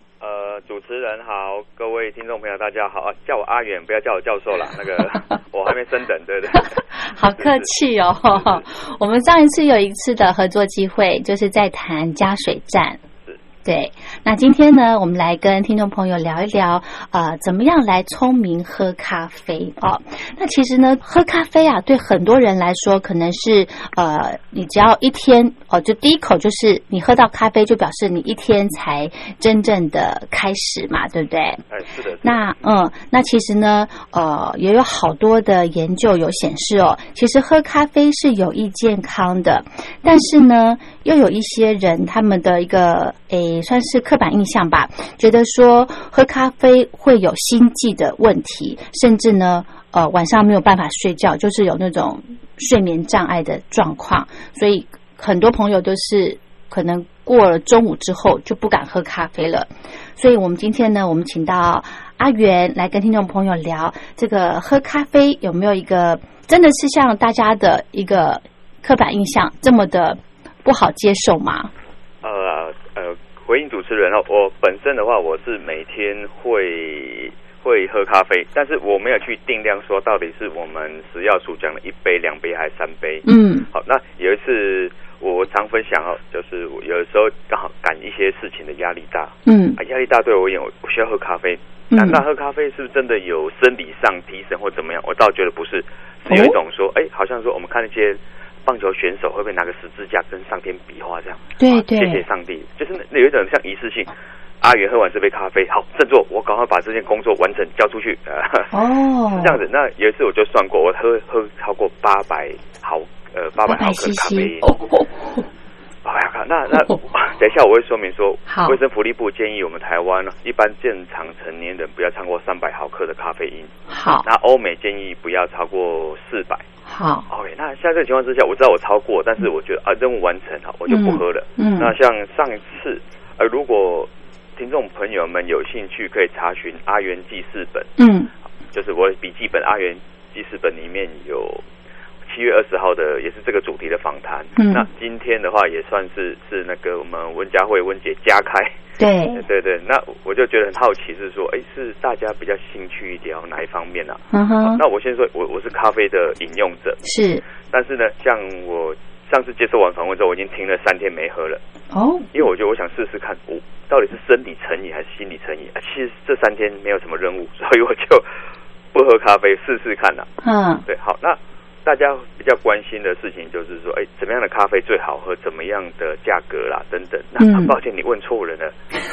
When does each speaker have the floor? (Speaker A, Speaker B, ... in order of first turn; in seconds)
Speaker A: 0.2-7.7, 8.3-8.6, 31.7-32.5, 72.2-108.7, 109.3-114.6, 116.0-126.7, 127.3-137.9, 138.7-141.6, 142.2-148.8, 149.3-157.0, 157.7-161.6, 162.3-168.2, 168.9-170.3, 170.8-178.7
Speaker B: 6.6-13.0, 13.6-31.6, 32.2-71.7, 83.2-83.7, 89.5-89.8, 91.9-92.2, 96.3-96.5, 101.6-102.2, 108.7-109.6, 113.6-115.5, 118.5-118.8, 123.9-124.2, 126.8-127.2, 130.9-131.9, 138.0-138.3, 144.6-144.8, 149.0-149.4, 154.3-154.8, 157.0-157.4, 161.9-162.3, 170.4-170.8, 177.4-177.7